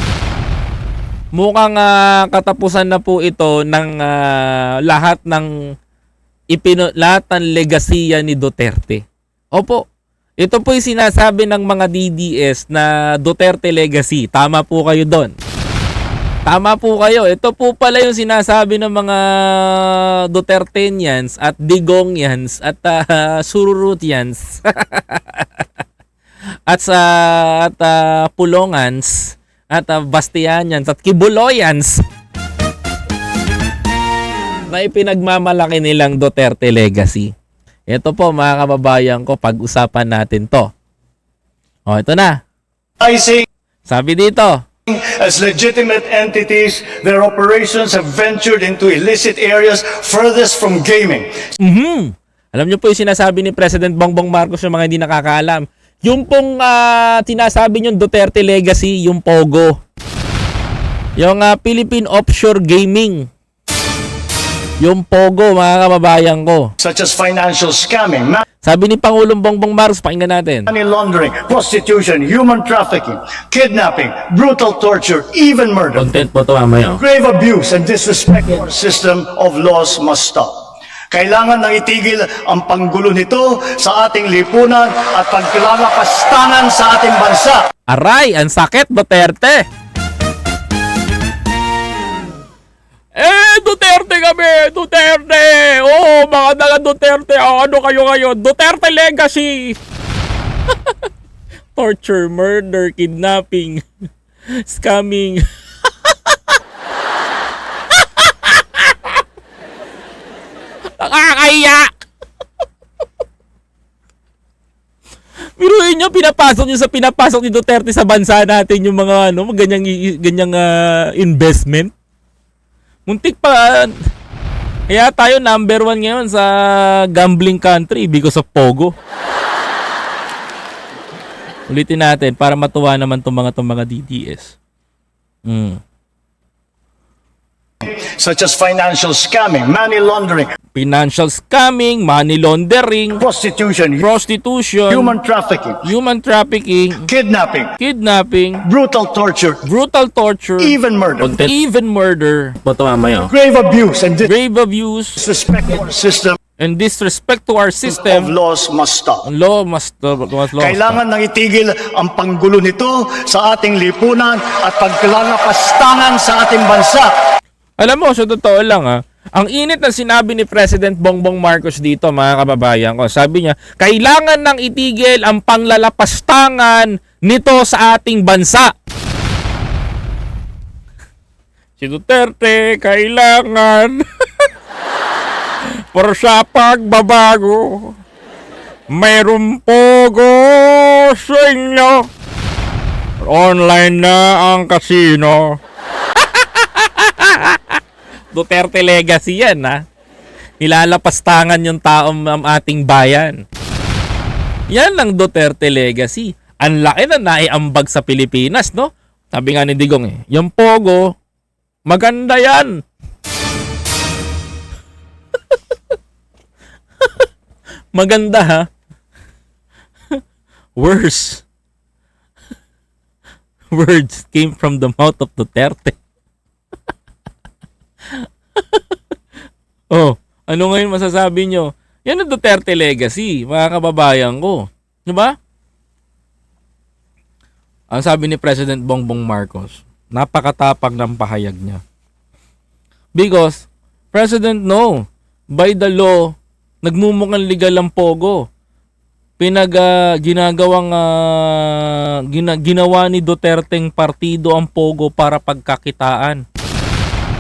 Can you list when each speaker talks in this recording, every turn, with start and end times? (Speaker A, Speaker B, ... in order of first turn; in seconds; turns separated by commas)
Speaker A: 1.3-5.5, Speaker A: 6.5-9.0, Speaker A: 9.5-9.8, Speaker A: 10.4-15.3, Speaker A: 16.5-25.7, Speaker A: 26.7-32.0, Speaker A: 34.7-37.3, Speaker A: 37.9-40.7, Speaker A: 41.9-42.4, Speaker B: 43.0-43.5, Speaker A: 43.9-44.6, Speaker B: 44.9-51.3, Speaker A: 51.6-59.8, Speaker A: 61.2-63.3, Speaker A: 64.8-66.7, Speaker B: 66.8-68.4, Speaker A: 68.6-70.7, Speaker B: 70.7-76.1, Speaker A: 76.1-77.0, Speaker B: 77.0-80.5, Speaker B: 81.1-87.6, Speaker A: 87.9-89.7, Speaker A: 93.2-99.8, Speaker A: 101.8-103.8, Speaker A: 104.6-106.6, Speaker A: 108.0-109.2, Speaker A: 111.0-111.9, Speaker A: 115.6-121.9, Speaker A: 123.1-123.9, Speaker A: 124.9-128.9, Speaker A: 131.7-134.6, Speaker A: 135.4-135.8, Speaker B: 137.8-140.5, Speaker A: 140.8-143.2, Speaker B: 143.2-144.1, Speaker A: 144.0-145.2, Speaker B: 144.9-145.8, Speaker A: 145.8-147.1, Speaker B: 147.0-147.7, Speaker A: 147.8-148.7, Speaker B: 148.6-149.6, Speaker A: 149.7-153.3, Speaker B: 150.6-151.3, Speaker B: 153.3-154.3, Speaker A: 154.2-155.2, Speaker B: 155.2-156.4, Speaker A: 156.6-158.3, Speaker B: 157.8-159.2, Speaker A: 159.2-161.0, Speaker B: 160.6-167.1, Speaker A: 167.8-178.7, Speaker A: 181.8-184.5, Speaker A: 185.8-187.9, Speaker A: 188.9-192.1, Speaker A: 193.2-195.6, Speaker A: 196.2-197.8, Speaker A: 198.3-199.8, Speaker A: 200.6-203.4, Speaker A: 204.7-211.1, Speaker A: 211.9-212.8, Speaker A: 217.9-218.7, Speaker A: 220.8-221.4, Speaker A: 223.7-226.0, Speaker A: 228.2-229.0, Speaker A: 229.9-235.3, Speaker A: 237.9-241.8, Speaker A: 243.2-246.3, Speaker A: 246.8-248.4, Speaker A: 249.4-256.4